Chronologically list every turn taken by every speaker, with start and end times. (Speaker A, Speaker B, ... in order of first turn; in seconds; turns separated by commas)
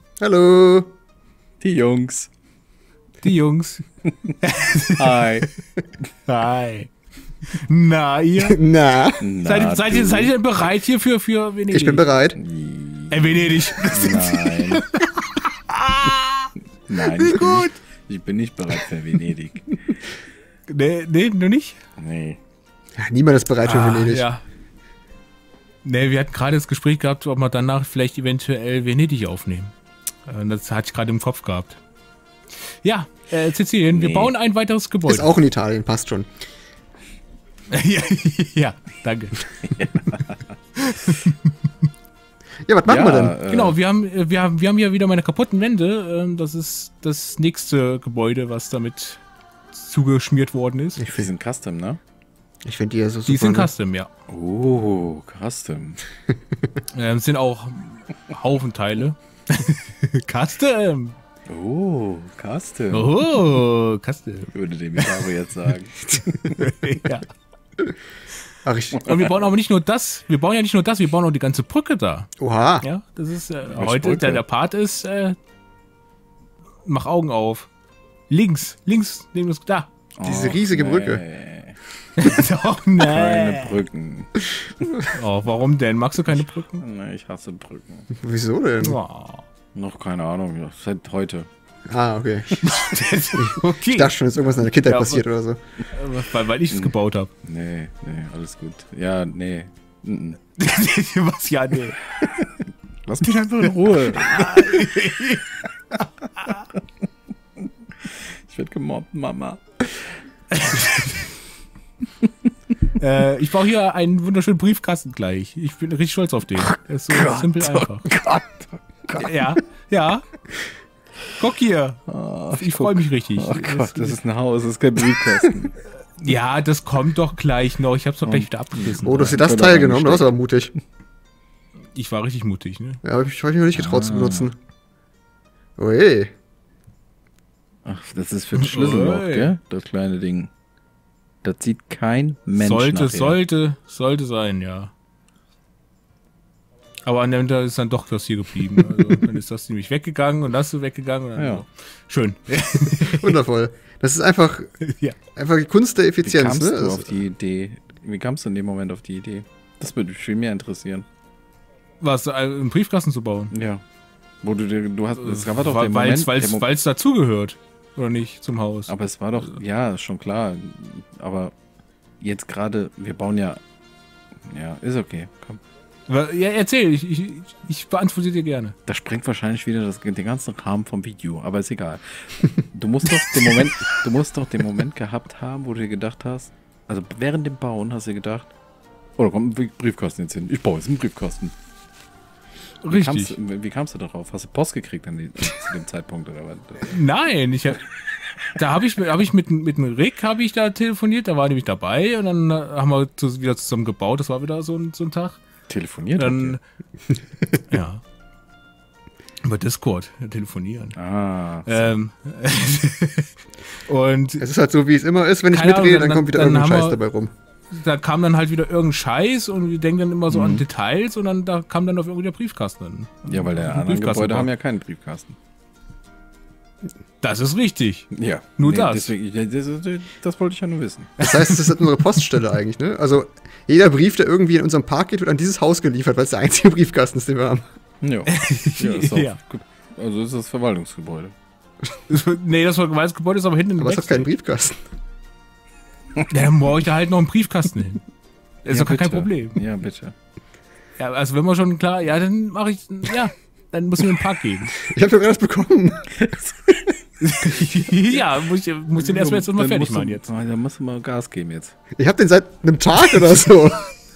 Speaker A: 0.2-0.9, Speaker B: 1.6-2.3, Speaker C: 3.2-3.8, Speaker C: 4.4-5.1, Speaker B: 5.0-5.5, Speaker C: 6.3-6.9, Speaker C: 7.5-8.6, Speaker A: 8.4-9.2, Speaker B: 9.2-10.3, Speaker C: 9.4-12.0, Speaker A: 11.7-12.4, Speaker B: 12.4-14.8, Speaker C: 13.1-16.5, Speaker B: 16.9-20.0, Speaker C: 17.2-17.8, Speaker C: 20.7-21.8, Speaker B: 22.0-22.4, Speaker A: 23.0-24.3, Speaker C: 23.6-24.4, Speaker C: 25.8-29.8, Speaker C: 30.3-31.8, Speaker C: 32.7-35.3, Speaker B: 33.9-34.3, Speaker A: 35.1-36.3, Speaker C: 37.7-39.5, Speaker B: 39.6-40.4, Speaker C: 40.8-41.5, Speaker A: 42.7-43.4, Speaker B: 42.9-43.8, Speaker C: 43.5-51.1, Speaker A: 51.0-51.3, Speaker B: 51.1-52.0, Speaker A: 52.6-53.7, Speaker C: 53.3-54.1, Speaker B: 54.3-56.0, Speaker C: 56.9-61.2, Speaker B: 61.5-63.1, Speaker C: 62.9-65.2, Speaker B: 64.5-66.9, Speaker C: 66.6-67.3, Speaker A: 68.6-69.0, Speaker C: 68.9-72.3, Speaker A: 72.4-72.9, Speaker C: 72.8-75.4, Speaker B: 73.7-74.4, Speaker C: 76.8-77.7, Speaker C: 78.3-79.9, Speaker B: 80.2-81.8, Speaker A: 80.2-81.2, Speaker C: 82.2-83.8, Speaker B: 83.0-84.3, Speaker C: 85.1-86.8, Speaker B: 86.7-88.1, Speaker A: 88.2-89.0, Speaker C: 88.8-89.5, Speaker B: 89.8-91.5, Speaker A: 91.9-92.6, Speaker C: 92.5-95.2, Speaker A: 93.3-95.6, Speaker C: 95.9-97.3, Speaker B: 97.4-100.4, Speaker C: 100.6-102.0, Speaker B: 103.1-104.9, Speaker C: 104.1-106.6, Speaker B: 108.0-110.0, Speaker C: 110.5-111.1, Speaker C: 113.0-118.1, Speaker B: 116.7-119.3, Speaker C: 119.1-120.3, Speaker C: 121.3-122.0, Speaker B: 122.1-125.8, Speaker C: 122.5-124.2, Speaker C: 126.2-129.4, Speaker B: 128.3-130.3, Speaker A: 129.0-130.7, Speaker C: 131.9-133.0, Speaker A: 133.0-134.6, Speaker B: 133.7-134.5, Speaker A: 135.8-136.3, Speaker B: 137.9-140.5, Speaker C: 138.6-139.5, Speaker B: 141.4-143.4, Speaker C: 142.6-144.9, Speaker C: 147.1-153.2, Speaker B: 151.4-151.6, Speaker A: 152.9-154.7, Speaker C: 154.8-155.2, Speaker A: 155.4-157.2, Speaker B: 156.2-161.1, Speaker C: 162.0-163.5, Speaker B: 163.5-163.8, Speaker B: 164.4-166.7, Speaker C: 165.2-168.9, Speaker B: 168.9-171.5, Speaker B: 172.2-173.6, Speaker B: 174.4-175.6, Speaker C: 176.1-178.8, Speaker B: 178.9-188.5, Speaker B: 189.2-191.5, Speaker C: 192.8-193.4, Speaker B: 192.9-196.9, Speaker C: 196.8-197.8, Speaker C: 198.5-205.4, Speaker B: 205.7-206.6, Speaker C: 206.2-206.6, Speaker C: 207.7-208.0, Speaker C: 209.4-211.0, Speaker B: 211.0-211.9, Speaker C: 211.7-214.4, Speaker A: 214.4-217.3, Speaker C: 215.5-217.0, Speaker C: 217.7-224.5, Speaker B: 220.3-220.6, Speaker B: 223.3-225.3, Speaker C: 227.2-229.1, Speaker B: 228.1-231.2, Speaker C: 231.2-231.5, Speaker A: 231.2-237.6, Speaker B: 238.0-241.3, Speaker C: 238.3-239.4, Speaker C: 242.1-244.3, Speaker A: 243.8-244.8, Speaker C: 246.3-248.0, Speaker C: 248.6-249.6, Speaker B: 248.7-250.1, Speaker C: 251.0-254.8, Speaker A: 254.8-256.2, Speaker B: 256.2-256.6, Speaker C: 257.2-260.3, Speaker B: 257.6-258.3, Speaker B: 259.0-261.7, Speaker A: 262.0-263.9